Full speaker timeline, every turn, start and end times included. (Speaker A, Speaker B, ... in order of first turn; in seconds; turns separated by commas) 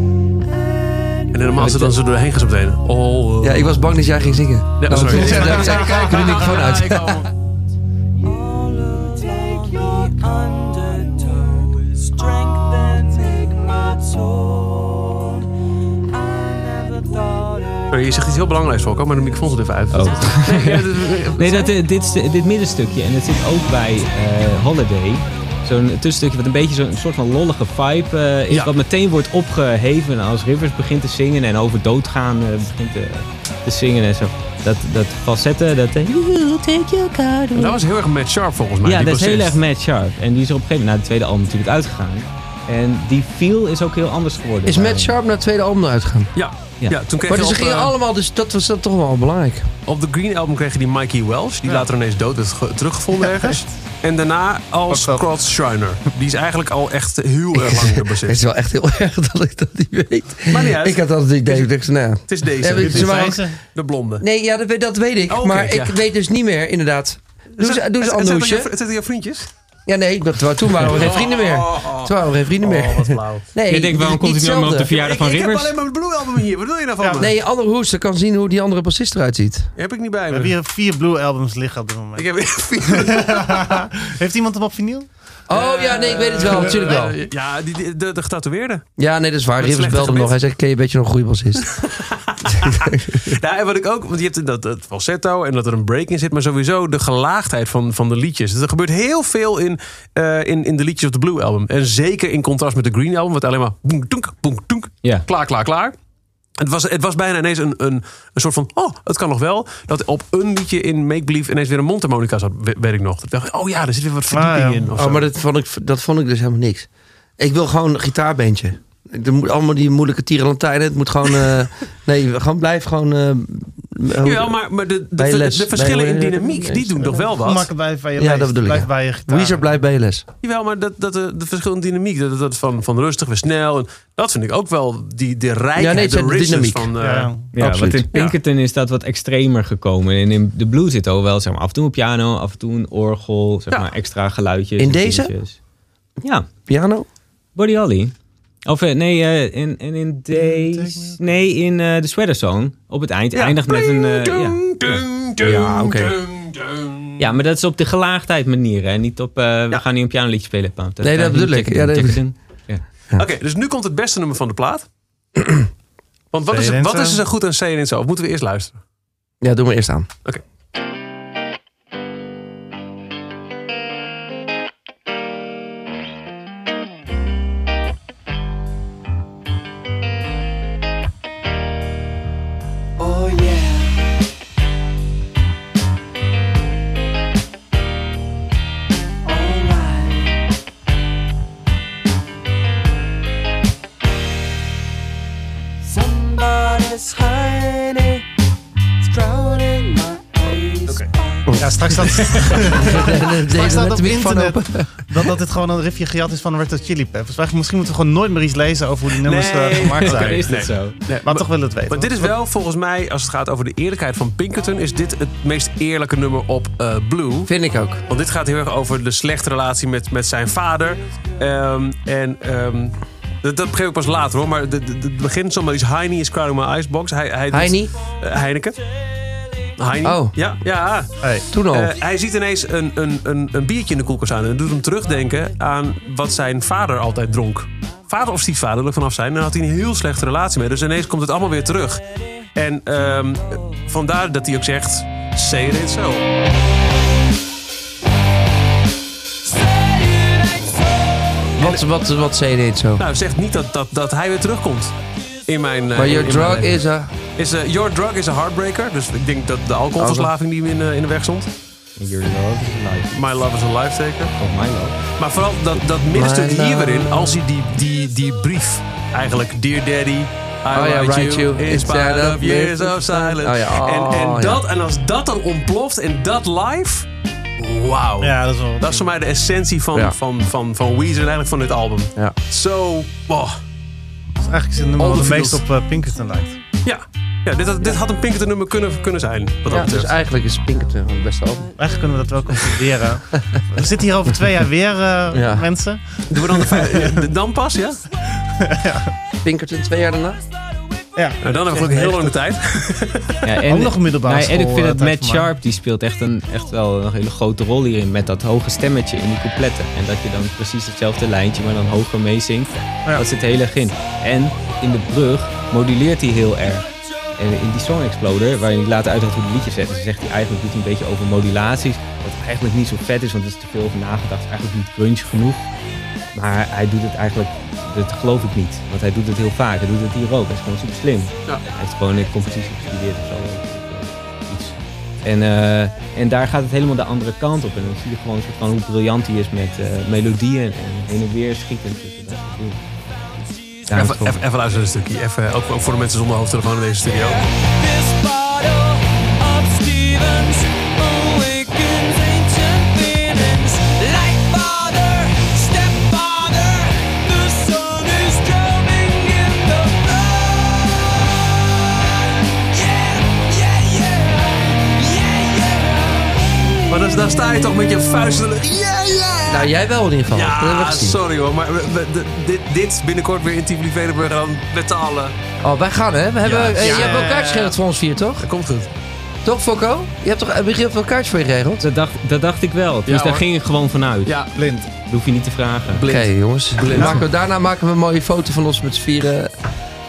Speaker A: 0.5-1.6, Speaker B: 1.3-7.3, Speaker C: 1.6-1.9, Speaker C: 3.4-7.3, Speaker A: 8.2-15.5, Speaker A: 16.1-17.9, Speaker B: 17.9-21.7, Speaker D: 19.9-37.8, Speaker B: 37.5-39.5, Speaker D: 38.8-45.1, Speaker C: 44.6-46.3, Speaker B: 46.4-47.9, Speaker C: 47.3-49.7, Speaker B: 49.9-58.4, Speaker E: 53.2-53.6, Speaker E: 54.9-55.2, Speaker C: 57.5-63.4, Speaker B: 60.5-61.7, Speaker B: 62.3-64.2, Speaker E: 62.7-63.6, Speaker C: 64.2-68.7, Speaker B: 65.3-66.0, Speaker B: 67.6-69.5, Speaker C: 69.8-74.9, Speaker B: 70.8-73.4, Speaker D: 73.7-75.7, Speaker B: 74.9-77.3, Speaker E: 77.0-77.3, Speaker C: 77.1-79.7, Speaker B: 79.8-80.5, Speaker E: 80.3-82.2, Speaker B: 82.2-83.8, Speaker E: 82.8-85.1, Speaker C: 85.5-87.2, Speaker B: 85.5-88.8, Speaker E: 86.5-86.9, Speaker C: 89.0-91.7, Speaker B: 89.6-90.4, Speaker B: 91.6-105.9, Speaker C: 92.5-93.3, Speaker B: 106.6-115.2, Speaker E: 114.3-114.9, Speaker C: 114.9-116.9, Speaker C: 117.4-124.5, Speaker B: 124.2-127.7, Speaker C: 125.1-127.3, Speaker E: 127.3-129.7, Speaker C: 128.2-130.2, Speaker B: 130.4-137.3, Speaker C: 135.8-136.9, Speaker E: 137.0-137.4, Speaker D: 137.5-145.6, Speaker C: 137.6-138.1, Speaker C: 144.8-145.3, Speaker D: 146.2-146.5, Speaker C: 146.7-147.1, Speaker D: 147.5-148.1, Speaker D: 148.7-154.6, Speaker E: 150.3-151.2, Speaker B: 153.3-157.2, Speaker C: 155.4-156.2, Speaker D: 157.2-162.8, Speaker C: 161.0-162.2, Speaker B: 163.1-164.8, Speaker B: 166.3-168.8, Speaker E: 166.5-167.2, Speaker C: 169.4-170.1, Speaker A: 183.0-184.0, Speaker A: 189.2-190.4, Speaker A: 195.8-198.2, Speaker A: 199.0-201.5, Speaker C: 201.4-201.8, Speaker E: 201.6-210.5, Speaker B: 202.0-202.8, Speaker C: 202.6-205.3, Speaker B: 209.1-217.5, Speaker D: 210.0-211.0, Speaker E: 211.2-212.3, Speaker C: 217.4-218.0, Speaker B: 218.1-228.8, Speaker C: 227.5-227.9, Speaker B: 229.8-242.0, Speaker C: 230.0-230.3, Speaker C: 231.5-231.9, Speaker B: 242.5-246.2, Speaker A: 249.4-251.5, Speaker C: 251.6-253.0, Speaker B: 253.0-254.9, Speaker B: 255.5-256.8, Speaker C: 255.9-257.1, Speaker B: 257.4-261.5, Speaker C: 260.0-260.3, Speaker D: 262.0-263.2, Speaker B: 263.1-264.3, Speaker D: 264.4-265.0, Speaker B: 265.2-277.1, Speaker C: 266.1-267.4, Speaker C: 270.7-274.6, Speaker B: 277.6-283.6, Speaker E: 278.2-279.1, Speaker E: 284.4-286.6, Speaker B: 285.0-285.6, Speaker B: 286.8-290.1, Speaker C: 289.7-291.8, Speaker E: 291.8-297.2, Speaker C: 295.3-295.7, Speaker B: 296.3-298.0, Speaker E: 298.6-299.1, Speaker C: 299.4-300.4, Speaker E: 301.1-302.3, Speaker B: 301.4-303.4, Speaker D: 303.4-325.6, Speaker E: 303.6-305.5, Speaker D: 326.3-342.8, Speaker D: 343.9-344.4, Speaker B: 343.9-347.4, Speaker A: 347.1-366.9, Speaker B: 366.9-369.7, Speaker C: 369.5-371.2, Speaker B: 370.3-375.3, Speaker C: 375.6-378.5, Speaker B: 376.4-377.2, Speaker E: 376.8-377.7, Speaker B: 378.4-378.9, Speaker C: 379.4-381.8, Speaker D: 381.8-384.3, Speaker B: 383.1-383.4, Speaker B: 384.2-384.5, Speaker E: 384.6-384.9, Speaker D: 384.9-386.0, Speaker B: 385.9-387.2, Speaker C: 386.0-389.5